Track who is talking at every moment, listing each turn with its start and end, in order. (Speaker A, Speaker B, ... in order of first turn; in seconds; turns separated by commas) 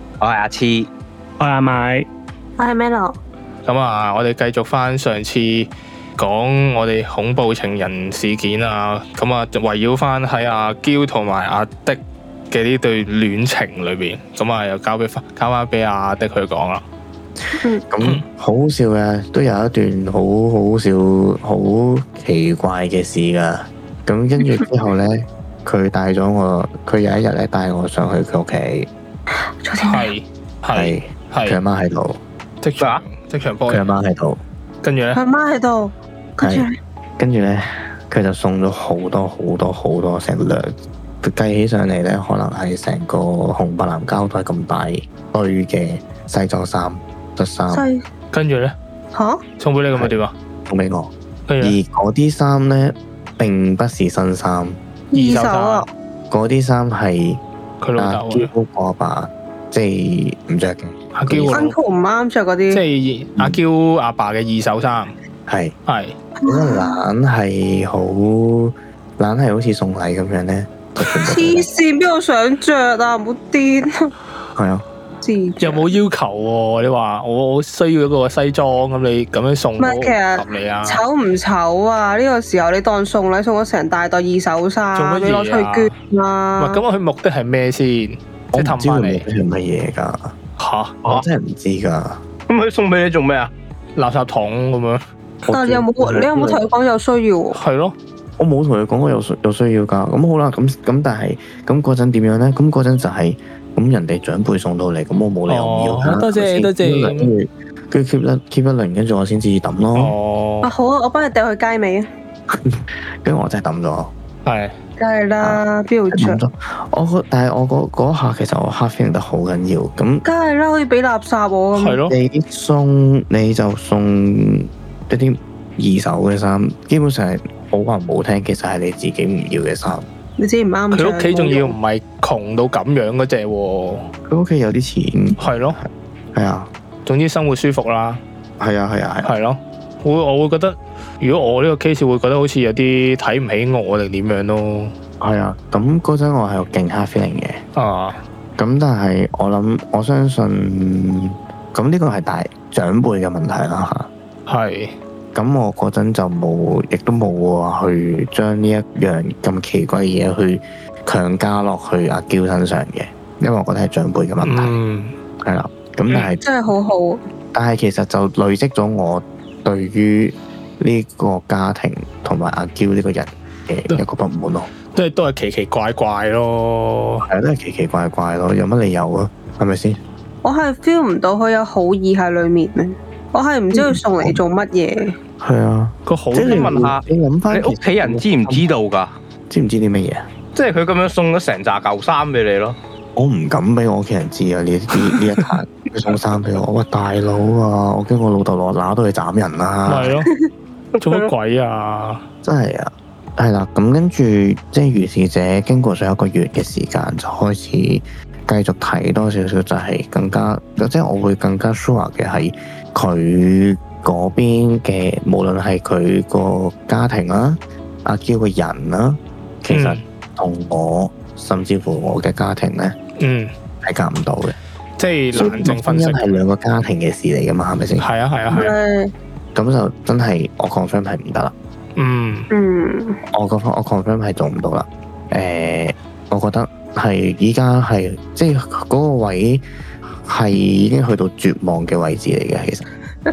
Speaker A: 0.2-0.9, Speaker A: 1.4-2.0, Speaker B: 2.6-3.2, Speaker C: 3.6-12.0, Speaker C: 12.5-16.8, Speaker D: 17.9-28.9, Speaker B: 29.6-30.1, Speaker C: 29.8-31.6, Speaker D: 30.7-32.2, Speaker C: 32.6-33.9, Speaker D: 33.7-34.4, Speaker C: 34.8-35.2, Speaker B: 35.1-36.8, Speaker D: 36.4-36.7, Speaker D: 37.2-47.9, Speaker B: 47.7-48.0, Speaker C: 48.3-48.8, Speaker B: 49.1-49.4, Speaker C: 49.6-50.3, Speaker D: 50.7-54.8, Speaker C: 51.5-51.8, Speaker B: 55.1-55.9, Speaker C: 55.1-55.9, Speaker D: 56.3-57.4, Speaker C: 57.8-58.5, Speaker D: 58.0-61.6, Speaker C: 61.1-61.8, Speaker B: 61.5-62.8, Speaker C: 62.7-65.1, Speaker D: 65.5-65.8, Speaker C: 65.9-66.2, Speaker B: 66.4-67.0, Speaker D: 66.5-71.7, Speaker B: 71.1-74.1, Speaker D: 74.5-74.8, Speaker B: 75.2-75.9, Speaker C: 75.6-81.0, Speaker B: 79.8-86.8, Speaker C: 85.0-85.9, Speaker C: 86.6-89.3, Speaker D: 88.5-90.3, Speaker C: 90.6-91.0, Speaker D: 91.0-92.2, Speaker A: 92.5-93.5, Speaker C: 94.0-95.0, Speaker D: 95.5-96.6, Speaker B: 95.5-97.6, Speaker C: 97.5-98.0, Speaker D: 98.4-110.2, Speaker C: 105.5-107.3, Speaker C: 110.0-110.7, Speaker B: 110.6-112.1, Speaker D: 112.5-114.1, Speaker C: 114.5-114.8, Speaker B: 115.0-116.4, Speaker D: 115.4-120.2, Speaker B: 120.2-122.0, Speaker C: 121.8-122.2, Speaker D: 122.1-130.1, Speaker B: 130.4-131.8, Speaker C: 130.9-134.1, Speaker D: 134.3-136.7, Speaker C: 135.4-135.8, Speaker C: 137.1-138.2, Speaker D: 138.6-139.3, Speaker C: 139.2-144.9, Speaker D: 145.2-147.6, Speaker C: 147.8-148.2, Speaker D: 148.6-154.1, Speaker C: 154.5-154.9, Speaker D: 155.3-164.8, Speaker C: 164.4-165.2, Speaker D: 165.4-166.4, Speaker B: 166.2-167.2, Speaker D: 167.5-174.7, Speaker C: 174.9-177.3, Speaker D: 177.2-180.0, Speaker B: 180.4-185.2, Speaker D: 183.7-184.4, Speaker D: 185.4-188.7, Speaker C: 186.1-186.8, Speaker A: 186.5-189.1, Speaker D: 189.5-190.3, Speaker A: 190.6-192.8, Speaker D: 193.2-200.2, Speaker C: 195.1-195.5, Speaker C: 199.9-200.3, Speaker C: 200.9-202.2, Speaker D: 202.4-223.0, Speaker C: 219.7-220.0, Speaker C: 223.2-223.5, Speaker D: 223.8-224.6, Speaker C: 225.0-226.4, Speaker D: 225.3-228.1, Speaker C: 228.0-228.8, Speaker B: 228.5-229.1, Speaker D: 229.6-231.5, Speaker C: 232.0-232.5, Speaker B: 232.5-233.2, Speaker D: 233.3-239.6, Speaker D: 240.2-242.9